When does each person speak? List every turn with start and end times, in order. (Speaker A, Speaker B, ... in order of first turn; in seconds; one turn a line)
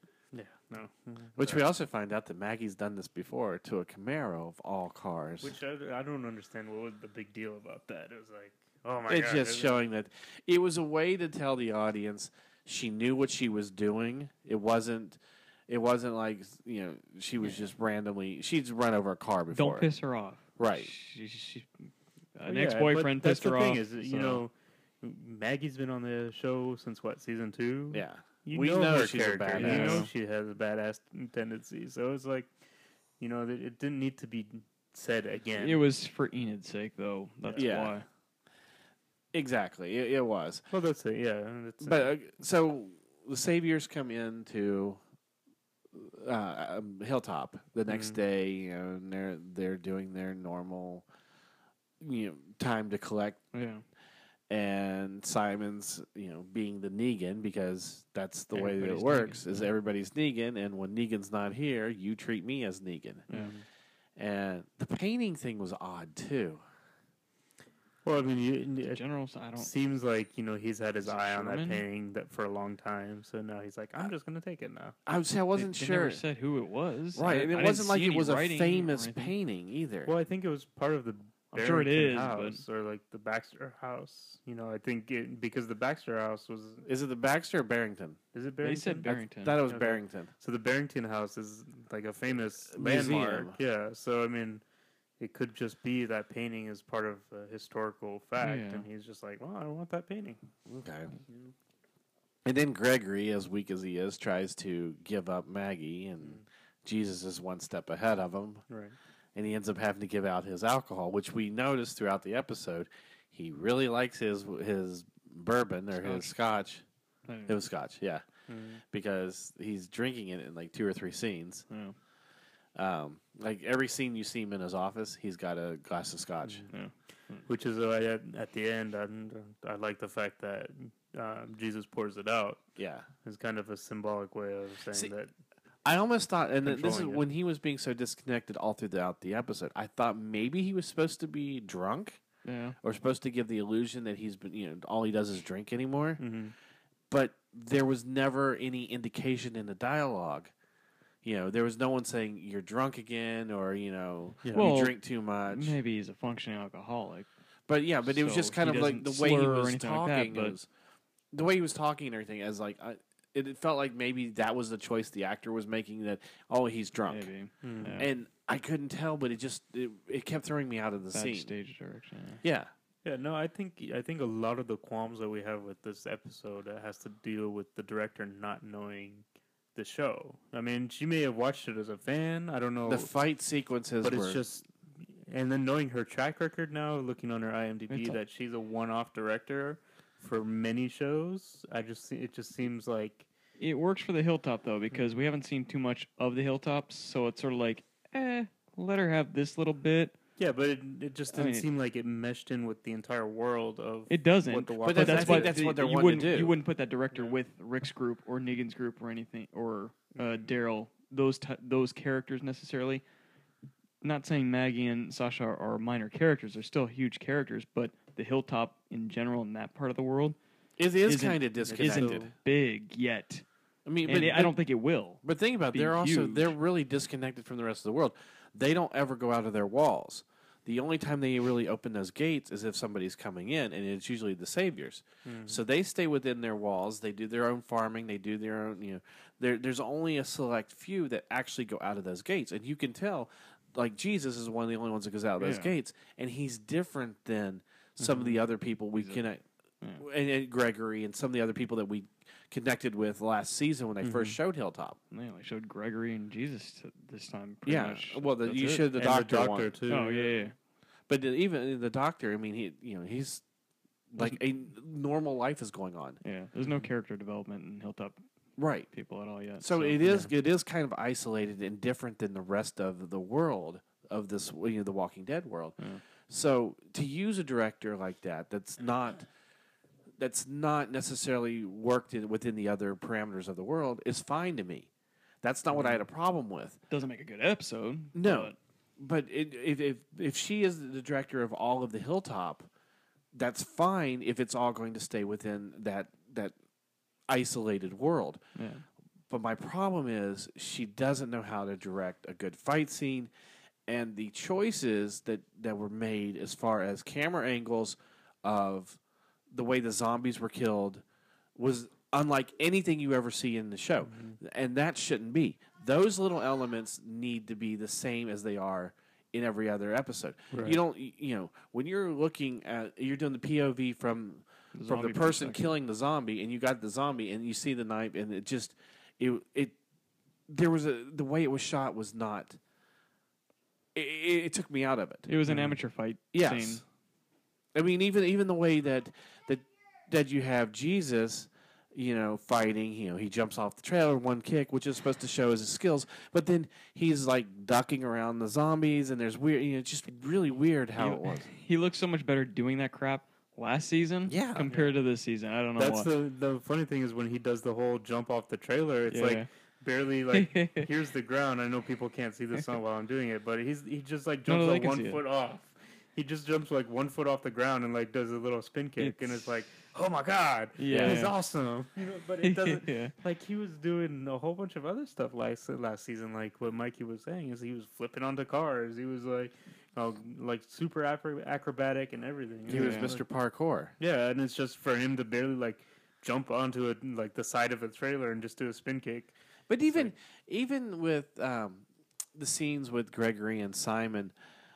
Speaker A: 0.3-1.6
Speaker B: 1.4-5.5
Speaker A: 5.4-9.8
Speaker B: 9.1-19.9
Speaker C: 19.5-24.4
Speaker B: 20.6-20.9
Speaker A: 22.5-32.5
Speaker B: 27.9-30.1
Speaker C: 29.5-30.1
Speaker A: 33.2-35.8
Speaker C: 35.6-38.0
Speaker B: 37.5-37.9
Speaker B: 39.3-40.6
Speaker A: 40.7-42.1
Speaker B: 41.8-45.0
Speaker B: 45.9-51.0
Speaker A: 47.9-48.2
Speaker B: 52.0-53.4
Speaker C: 53.5-53.8
Speaker B: 54.5-63.3
Speaker C: 58.5-59.7
Speaker A: 63.3-63.6
Speaker B: 64.2-66.6
Speaker A: 68.0-69.0
Speaker C: 68.8-69.7
Speaker A: 69.5-74.9
Speaker C: 71.0-71.8
Speaker B: 75.0-76.2
Speaker C: 75.5-79.3
Speaker B: 77.1-80.1
Speaker A: 80.0-86.8
Speaker C: 81.6-82.6
Speaker B: 86.8-88.2
Speaker A: 88.3-89.1
Speaker C: 88.6-89.6
Speaker B: 89.0-90.3
Speaker A: 89.6-94.6
Speaker B: 92.7-93.6
Speaker A: 95.2-100.4
Speaker C: 98.4-98.8
Speaker B: 100.7-101.1
Speaker B: 102.4-108.6
Speaker A: 108.7-109.0
Speaker B: 109.3-116.8
Speaker C: 116.0-116.3
Speaker C: 117.3-117.6
Speaker B: 117.5-118.2
Speaker A: 118.5-118.8
Speaker B: 118.9-121.7
Speaker C: 121.7-122.0
Speaker B: 122.7-126.6
Speaker C: 126.7-127.4
Speaker A: 127.5-132.6
Speaker B: 132.8-133.1
Speaker A: 133.2-135.3
Speaker B: 135.8-142.2
Speaker A: 136.6-137.2
Speaker C: 142.4-142.8
Speaker B: 142.8-146.2
Speaker A: 146.2-146.5
Speaker B: 147.1-150.5
Speaker B: 151.2-155.8
Speaker C: 154.5-157.3
Speaker B: 157.7-160.7
Speaker C: 158.0-160.6
Speaker B: 161.3-167.3
Speaker C: 167.1-168.1
Speaker A: 167.6-168.0
Speaker B: 168.0-171.5
Speaker C: 171.1-172.4
Speaker B: 172.4-172.7
Speaker A: 173.0-183.1
Speaker B: 182.8-184.4
Speaker A: 184.0-193.3
Speaker C: 187.9-188.2
Speaker C: 193.6-200.2
Speaker A: 200.4-205.6
Speaker C: 201.3-201.7
Speaker C: 204.1-213.0
Speaker B: 204.8-206.5
Speaker A: 210.2-210.5
Speaker C: 214.0-220.4
Speaker B: 220.8-222.2
Speaker C: 221.1-223.4
Speaker A: 221.7-222.3
Speaker B: 223.8-224.6
Speaker C: 224.0-226.5
Speaker B: 225.2-249.4
Speaker A: 235.2-235.6
Speaker C: 245.4-245.7
Speaker A: 248.0-248.4
Speaker C: 248.9-249.2
Speaker B: 250.0-255.0
Speaker A: 254.0-254.4
Speaker C: 255.1-258.9
Speaker B: 257.6-259.7
Speaker A: 258.9-260.3
Speaker C: 259.9-260.5
Speaker B: 261.1-263.4
Speaker B: 264.1-266.2
Speaker C: 266.2-268.2
Speaker B: 268.6-268.9
Speaker C: 268.9-270.3
Speaker B: 269.6-275.8
Speaker B: 276.3-279.3
Speaker B: 280.2-284.9
Speaker B: 285.4-286.8
Speaker C: 285.7-286.0
Speaker C: 286.9-288.6
Speaker B: 288.1-292.7
Speaker B: 293.3-296.5
Speaker B: 297.3-298.4
Speaker C: 298.6-298.8
Speaker B: 299.3-303.3
Speaker B: 303.9-309.0
Speaker B: 309.5-311.0
Speaker B: 311.6-329.8
Speaker A: 314.1-314.4
Speaker A: 320.5-320.8
Speaker C: 324.7-325.7
Speaker B: 330.5-332.6
Speaker B: 333.9-335.3
Speaker C: 335.3-336.8
Speaker A: 335.5-335.7
Speaker B: 336.3-336.8
Speaker B: 337.7-351.5
Speaker C: 351.0-356.1
Speaker B: 354.3-354.7
Speaker A: 354.7-354.9
Speaker A: 355.8-383.2
Speaker C: 359.1-359.5
Speaker C: 360.3-360.9
Speaker C: 364.5-365.2
Speaker C: 369.0-369.5
Speaker C: 370.8-371.3
Speaker B: 370.9-371.2
Speaker C: 372.4-373.1
Speaker B: 382.7-383.9
Speaker C: 382.7-383.1
Speaker A: 384.0-389.4
Speaker B: 389.7-394.3